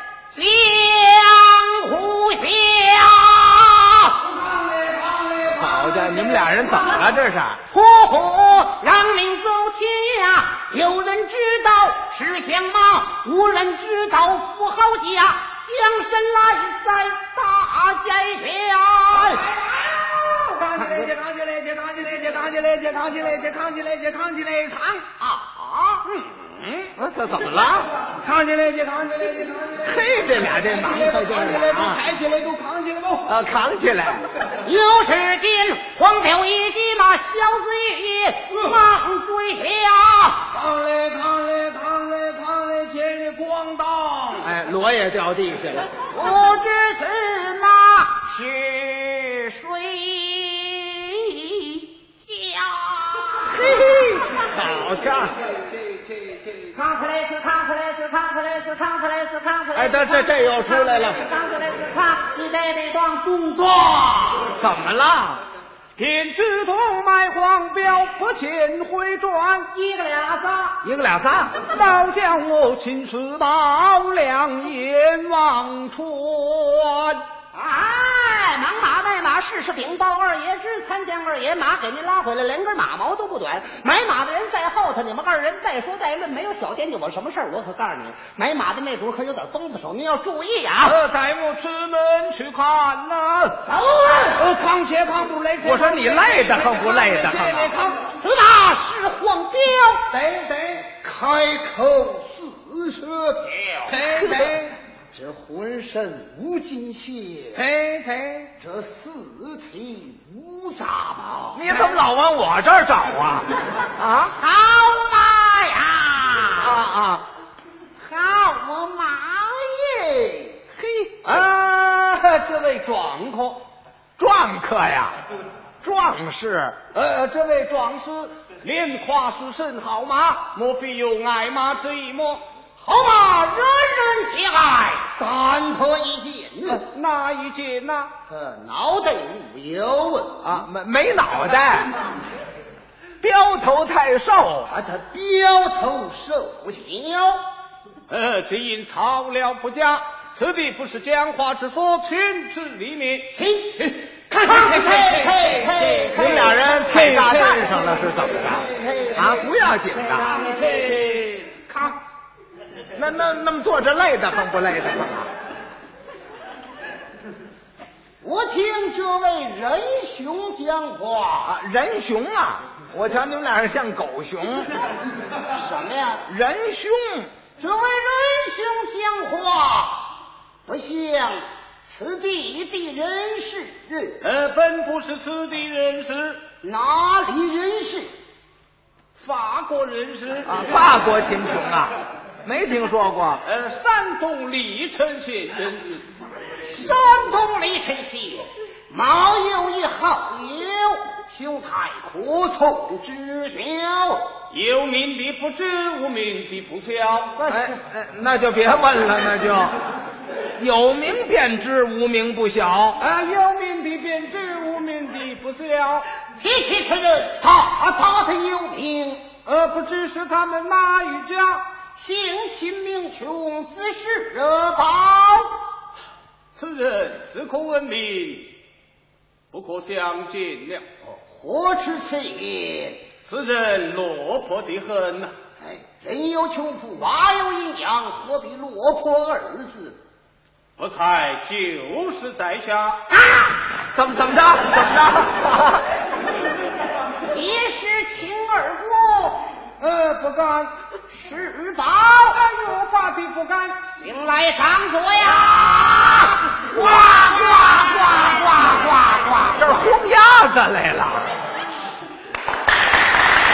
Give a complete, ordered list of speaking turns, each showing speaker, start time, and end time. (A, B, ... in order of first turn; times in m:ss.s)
0:00.3-0:04.2 A
0:04.2-0:07.1 B
0:05.5-0:07.6 C
0:07.7-0:19.4 A
0:19.1-0:26.0 B
0:26.0-0:26.8 A
0:27.0-0:27.9 C
0:28.0-0:33.3 B
0:29.8-0:32.0 C
0:33.3-0:34.3 C
0:34.6-0:40.5 A
0:40.5-0:44.5 B
0:44.4-0:45.9 C
0:46.1-0:53.6 A
0:53.4-0:55.4 C
0:55.6-0:56.4 B
0:56.7-1:04.5 A
0:59.7-1:01.2 C
1:04.6-1:05.4 C
1:06.0-1:09.8 B
1:09.8-1:10.7 A
1:10.8-1:11.6 C
1:11.6-1:17.2 B
1:17.5-1:31.0 A
1:30.8-1:33.6 B
1:33.6-1:34.4 A
1:34.3-1:38.1 B
1:35.6-1:37.7 C
1:38.1-1:40.1 A
1:40.1-1:40.8 B
1:40.9-1:43.9 A
1:43.9-1:44.7 B
1:44.1-1:44.5 C
1:45.1-1:47.6 A
1:47.6-1:48.4 B
1:48.6-1:51.7 A
1:51.5-1:54.3 C
1:54.3-1:56.8 A
1:56.6-1:57.2 C
1:58.0-2:00.7 A
2:01.1-2:03.6 B
2:04.2-2:05.2 C
2:05.8-2:06.8 C
2:06.9-2:12.4 B
2:12.8-2:13.3 A
2:13.1-2:15.0 B
2:15.0-2:16.8 A
2:16.7-2:18.1 B
2:18.3-2:20.5 A
2:20.4-2:21.9 C
2:23.2-2:24.7 C
2:24.6-2:27.4 A
2:28.1-2:38.0 B
2:33.3-2:37.4 A
2:36.1-2:40.4 C
2:38.4-2:39.5 A
2:40.0-2:42.0 B
2:40.2-2:40.8 A
2:42.9-2:45.3 C
2:48.2-2:51.5 A
2:51.4-2:54.7 C
2:55.5-2:56.2 A
2:56.3-2:57.3 C
2:57.6-3:00.1 A
3:00.6-3:04.2 A
3:04.2-3:06.4 B
3:06.6-3:08.1 A
3:09.2-3:11.1 B
3:10.4-3:13.4 C
3:13.4-3:16.0 B
3:16.6-3:24.3 A
3:24.5-3:27.4 B
3:27.4-3:27.8 A
3:27.5-3:29.8 C
3:30.6-3:33.0 C
3:33.0-3:36.1 B
3:36.4-3:39.2 A
3:39.4-3:41.6 B
3:42.0-3:45.5 A
3:46.5-3:48.5 B
3:49.5-3:50.8 B
3:51.0-3:53.0 A
3:53.2-3:55.3 B
3:55.6-4:00.0 A
4:00.8-4:03.1 B
4:03.9-4:05.8 C
4:07.3-4:09.5 A
4:09.8-4:10.7 B
4:11.1-4:12.4 A
4:12.3-4:13.8 B
4:14.0-4:19.6 A
4:19.6-4:21.3 C